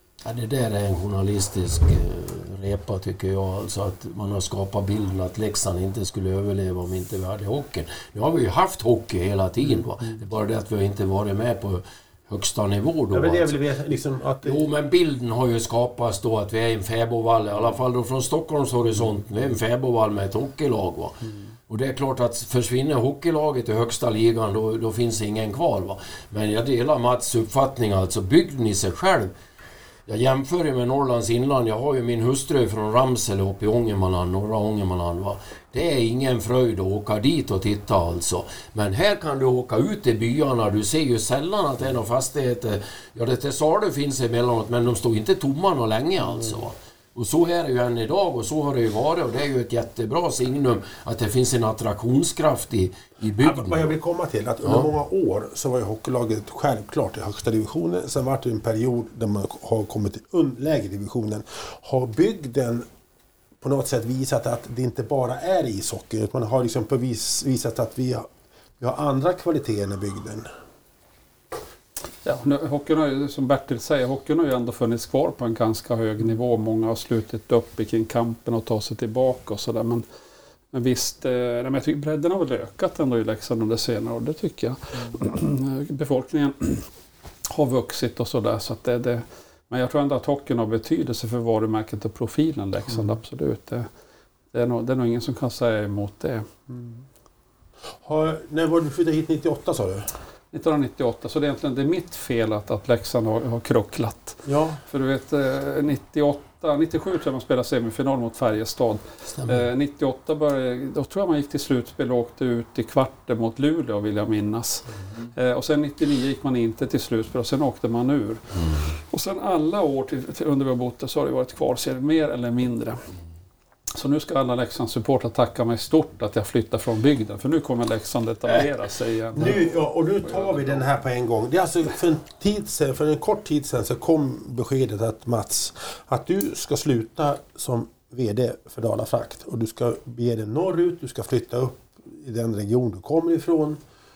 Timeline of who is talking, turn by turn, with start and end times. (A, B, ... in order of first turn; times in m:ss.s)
0:00.2-0:13.6 A
0:13.1-0:14.6 B
0:14.4-0:29.3 A
0:30.1-0:53.9 A
0:53.4-1:02.8 B
1:03.6-1:08.3 B
1:08.8-1:10.5 B
1:12.2-1:20.0 C
1:20.7-1:26.8 C
1:27.5-1:33.9 C
1:34.5-1:36.5 C
1:36.7-1:37.0 B
1:38.0-1:40.1 B
1:40.5-1:58.4 C
1:44.4-1:44.8 B
1:49.3-1:49.6 A
1:58.6-1:58.8 A
1:59.0-2:03.0 C
2:03.9-2:10.8 C
2:09.3-2:23.8 B